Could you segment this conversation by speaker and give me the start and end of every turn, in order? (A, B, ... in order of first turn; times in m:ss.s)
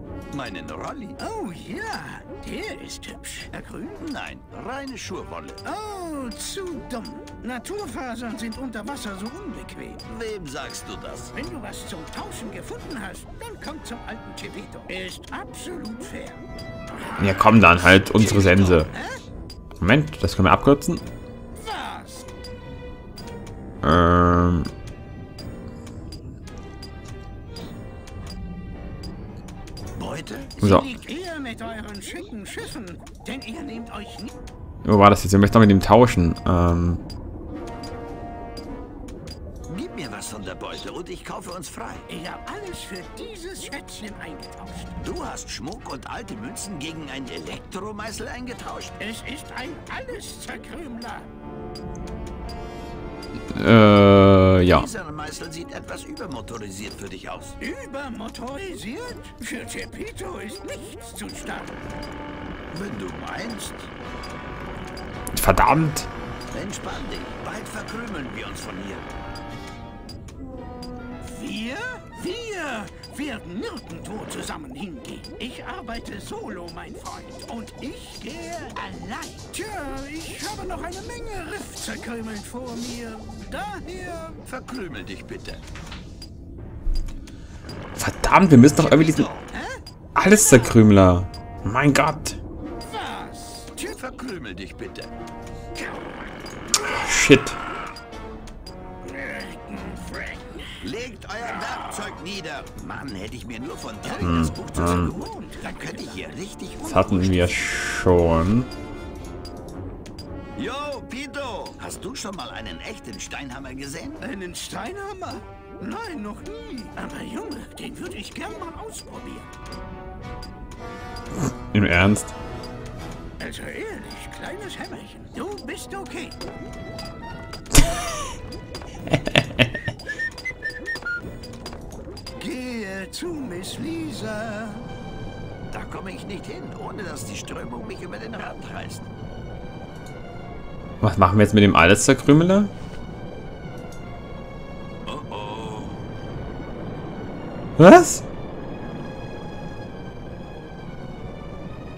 0:00.3-0:01.2 A
0:01.2-0:04.0 B
0:04.0-0:05.6 A
0:05.6-0:10.0 B
0:10.1-0:11.3 A
0:11.3-0:16.4 B
0:17.1-0:17.6 B
0:17.2-0:18.9 C
0:18.2-0:18.8 A
0:18.3-0:19.2 B
0:19.8-0:21.0 C
0:21.5-0:22.2 B
0:23.8-0:24.7 C
0:29.9-0:30.6 A
0:30.6-0:34.4 B
0:30.6-0:30.9 C
0:34.8-0:37.0 C
0:39.7-0:42.1 A
0:42.1-0:44.9 B
0:45.0-0:49.0 A
0:49.0-0:51.3 B
0:53.5-0:54.9 C
0:54.6-0:57.6 A
0:57.6-1:01.8 B
1:02.7-1:03.9 A
1:05.3-1:06.1 C
1:06.5-1:09.2 A
1:11.2-1:24.4 B
1:24.4-1:25.6 A
1:28.0-1:29.3 C
1:28.8-1:29.5 A
1:29.5-1:29.8 B
1:30.1-1:32.4 C
1:32.8-1:33.7 B
1:33.7-1:35.1 A
1:35.7-1:36.3 B
1:36.7-1:37.6 C
1:39.0-1:40.8 B
1:40.8-1:47.7 A
1:41.6-1:42.1 B
1:44.0-1:46.2 B
1:44.2-1:45.1 C
1:46.8-1:48.7 C
1:50.6-1:54.2 A
1:54.2-1:59.5 B
2:01.7-2:02.3 C
2:03.4-2:06.4 B
2:09.1-2:09.7 C
2:12.4-2:14.9 B
2:15.7-2:19.1 A
2:21.0-2:22.7 C
2:25.0-2:26.0 A
2:27.8-2:28.2 C